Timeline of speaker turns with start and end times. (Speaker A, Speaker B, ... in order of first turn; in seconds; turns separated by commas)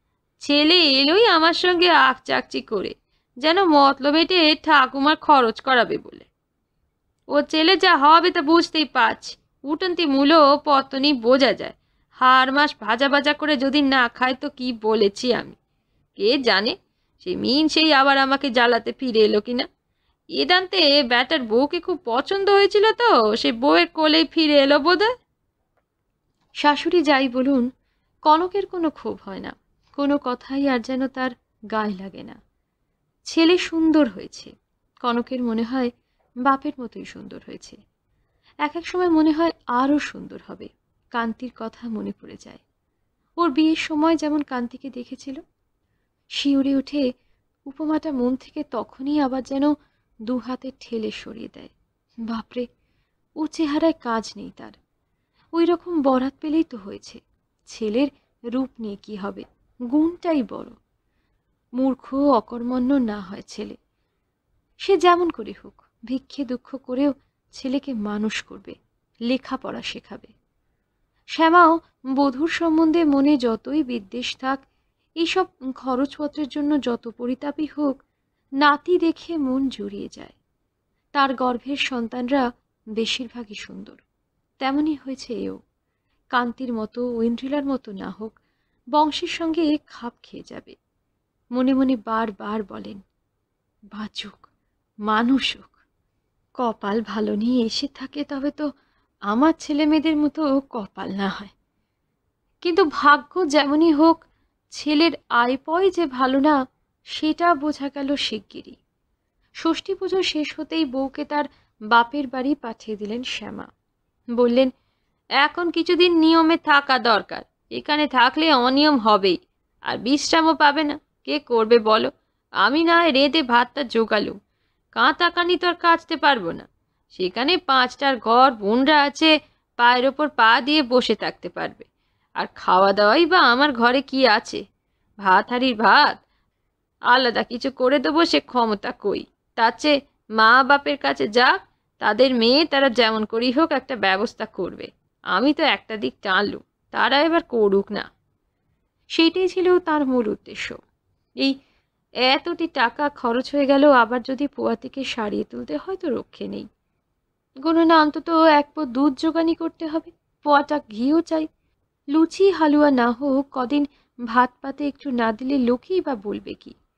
Speaker A: 0.4-6.3, Speaker A: 7.3-15.6, Speaker A: 16.2-19.7, Speaker A: 20.4-25.1, Speaker A: 26.6-27.7, Speaker A: 28.2-32.4, Speaker A: 33.3-35.9, Speaker A: 36.4-37.8, Speaker A: 38.6-42.6, Speaker A: 43.4-45.4, Speaker A: 46.3-47.0, Speaker A: 47.7-49.7, Speaker A: 50.3-51.7, Speaker A: 52.3-52.7, Speaker A: 53.4-54.8, Speaker A: 55.5-60.8, Speaker A: 61.8-63.8, Speaker A: 64.8-68.8, Speaker A: 69.3-70.3, Speaker A: 71.3-74.6, Speaker A: 75.2-78.0, Speaker A: 78.6-80.3, Speaker A: 81.1-82.4, Speaker A: 83.0-84.0, Speaker A: 84.6-85.6, Speaker A: 86.3-88.3, Speaker A: 88.9-90.8, Speaker A: 91.5-93.0, Speaker A: 93.9-94.5, Speaker A: 95.1-95.7, Speaker A: 96.6-98.6, Speaker A: 99.3-101.5, Speaker A: 102.6-104.2, Speaker A: 104.7-106.6, Speaker A: 107.1-108.8, Speaker A: 109.6-113.7, Speaker A: 114.4-114.7, Speaker A: 115.4-119.4, Speaker A: 119.9-122.1, Speaker A: 122.6-124.4, Speaker A: 124.9-131.9, Speaker A: 132.4-134.6, Speaker A: 135.2-136.2, Speaker A: 137.1-148.1, Speaker A: 149.2-150.8, Speaker A: 152.3-156.7, Speaker A: 157.6-161.5, Speaker A: 162.1-166.7